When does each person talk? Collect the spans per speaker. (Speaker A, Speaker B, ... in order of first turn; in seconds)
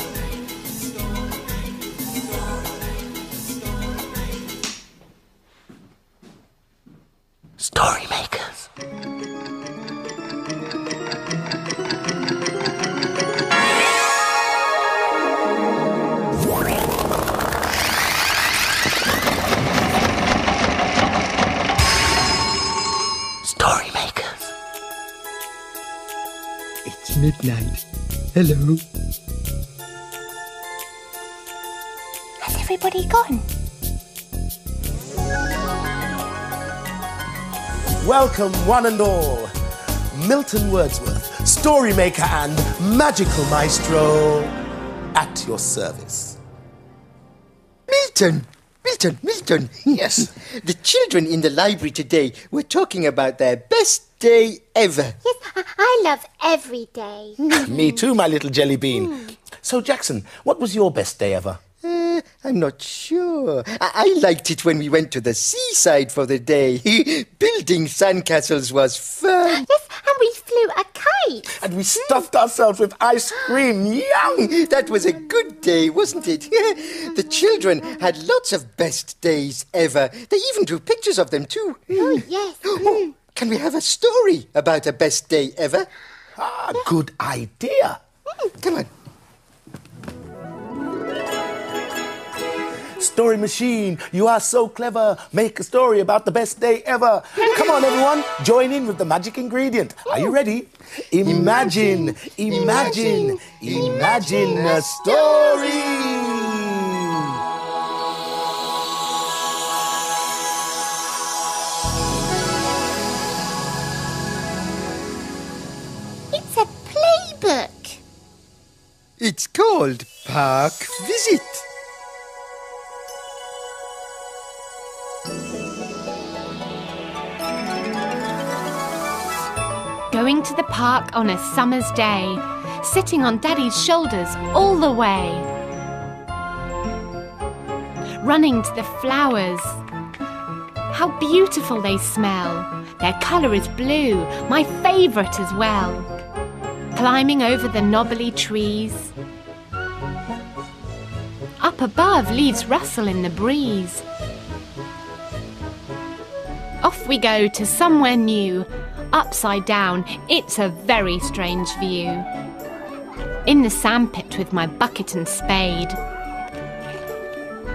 Speaker A: 7.6-8.7, 23.4-24.5, 38.0-39.5, 40.1-44.5, 45.1-46.4, 57.5-61.6, 71.5-74.4, 86.4-88.0, 93.0-107.0
Speaker B: 26.9-27.8, 28.3-28.8, 47.9-55.1, 57.4-57.7, 61.8-69.7, 74.4-85.9, 88.5-88.9, 101.3-105.0, 119.2-121.6
Speaker C: 32.4-33.4, 130.1-135.5, 138.2-139.8, 140.9-146.1, 146.9-149.1, 151.6-154.0, 156.8-162.3, 163.4-166.0
Speaker D: 55.2-57.4, 69.5-71.5, 82.0-82.9, 116.3-117.8